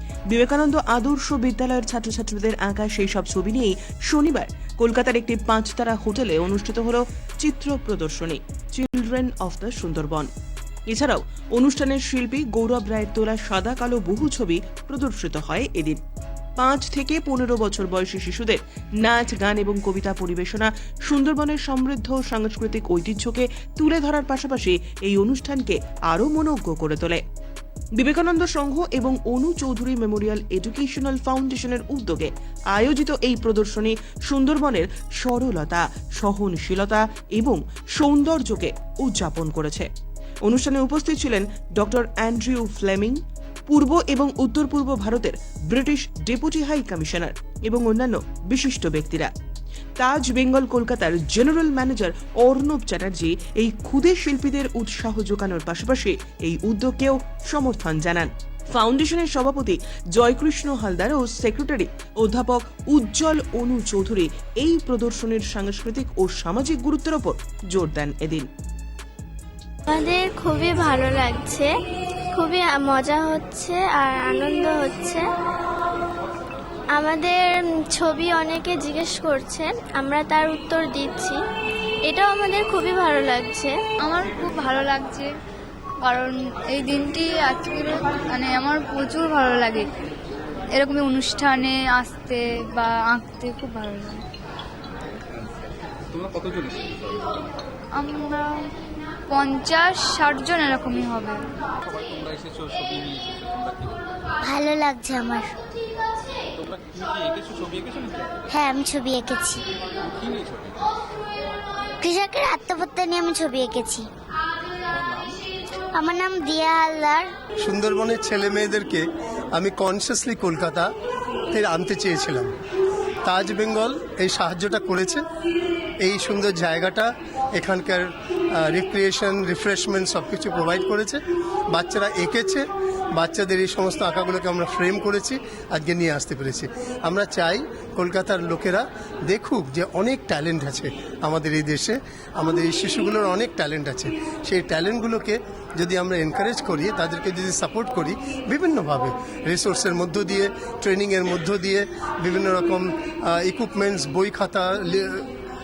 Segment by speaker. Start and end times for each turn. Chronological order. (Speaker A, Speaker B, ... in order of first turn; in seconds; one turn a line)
Speaker A: 0.3-10.3
Speaker A: 10.9-16.0
Speaker A: 16.6-27.2
Speaker A: 27.9-39.9
Speaker A: 40.4-49.3
Speaker A: 50.0-68.5
Speaker B: 69.9-71.7
Speaker B: 72.3-75.2
Speaker B: 76.9-81.4
Speaker B: 82.0-83.7
Speaker C: 84.0-85.3
Speaker C: 86.0-89.9
Speaker C: 90.7-94.2
Speaker D: 96.1-97.3
Speaker C: 97.9-98.6
Speaker C: 99.3-101.4
Speaker D: 101.8-104.0
Speaker E: 104.4-105.5
Speaker D: 106.6-108.4
Speaker E: 108.5-109.6
Speaker D: 110.0-110.8
Speaker E: 112.0-114.1
Speaker D: 114.9-115.4
Speaker E: 115.9-117.3
Speaker F: 117.6-120.9
Speaker F: 121.5-122.5
Speaker F: 123.2-125.2
Speaker F: 126.0-131.2
Speaker F: 131.7-155.3